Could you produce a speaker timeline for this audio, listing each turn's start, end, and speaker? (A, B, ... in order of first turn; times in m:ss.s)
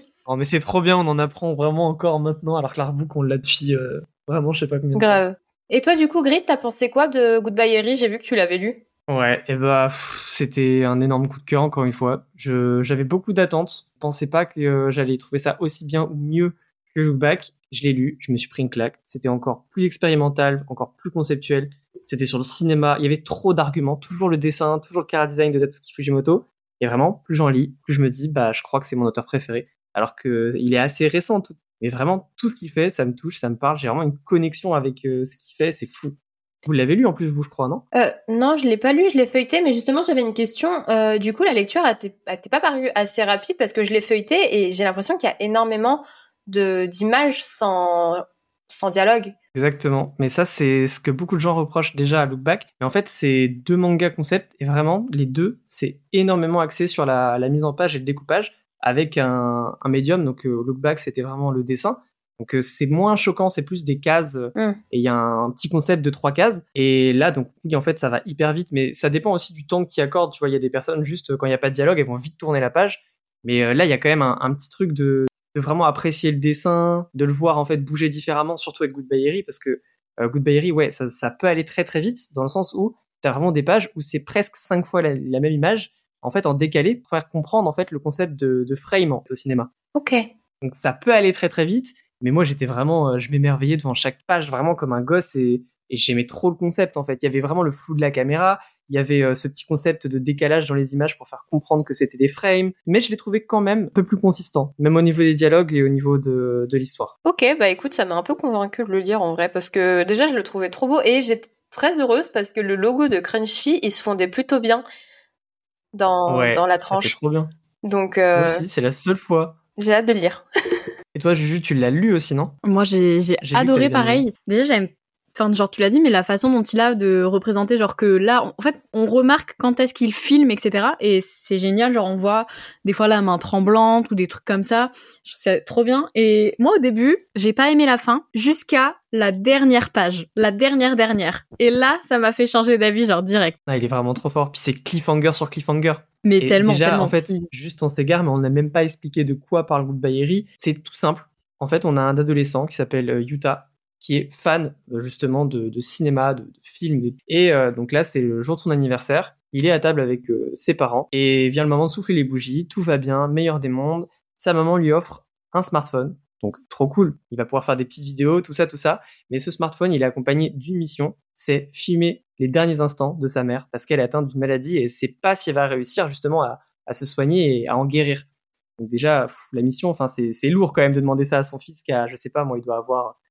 0:00.3-0:05.2 A
0:05.0-0:08.8 B
0:09.1-0:37.8 A
0:37.9-0:49.3 B
0:49.6-1:29.7 A
1:30.0-1:30.3 B
1:30.6-1:47.1 A
1:47.3-1:54.8 B
1:55.9-1:57.2 B
1:56.3-1:57.5 A
1:57.8-1:58.6 B
1:58.4-1:59.6 A
1:59.8-2:00.4 B
2:01.2-2:02.6 A
2:02.6-2:23.6 C
2:03.4-2:04.3 A
2:23.7-3:03.2 A
2:26.2-2:27.5 C